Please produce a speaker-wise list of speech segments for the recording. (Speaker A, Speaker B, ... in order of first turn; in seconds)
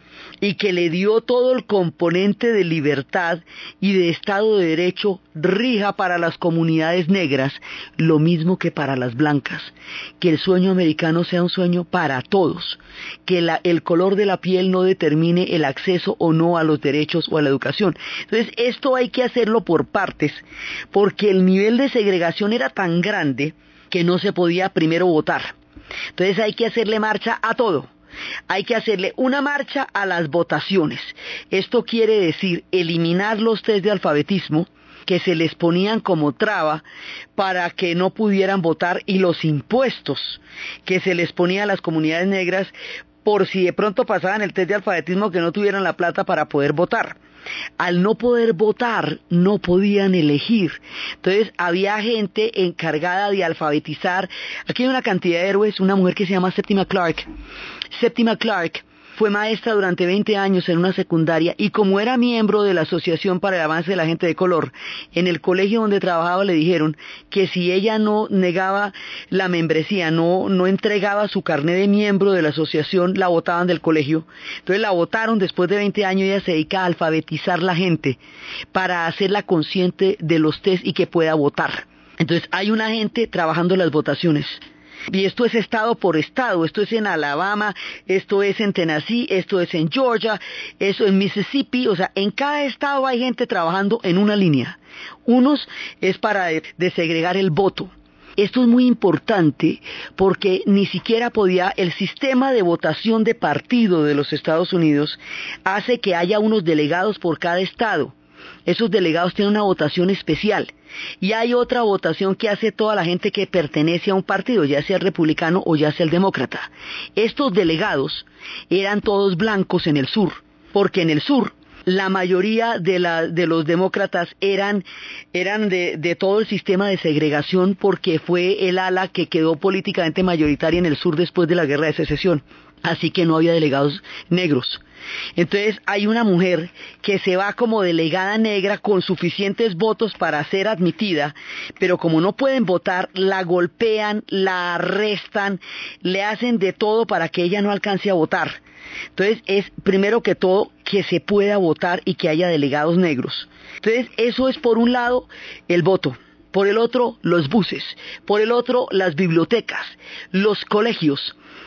Speaker A: 0.4-25.5, 26.1-27.9, 28.5-36.8, 37.3-42.7, 43.2-47.2, 47.8-57.3, 57.9-78.2, 78.7-108.1, 108.7-134.8, 135.3-148.6, 149.2-161.3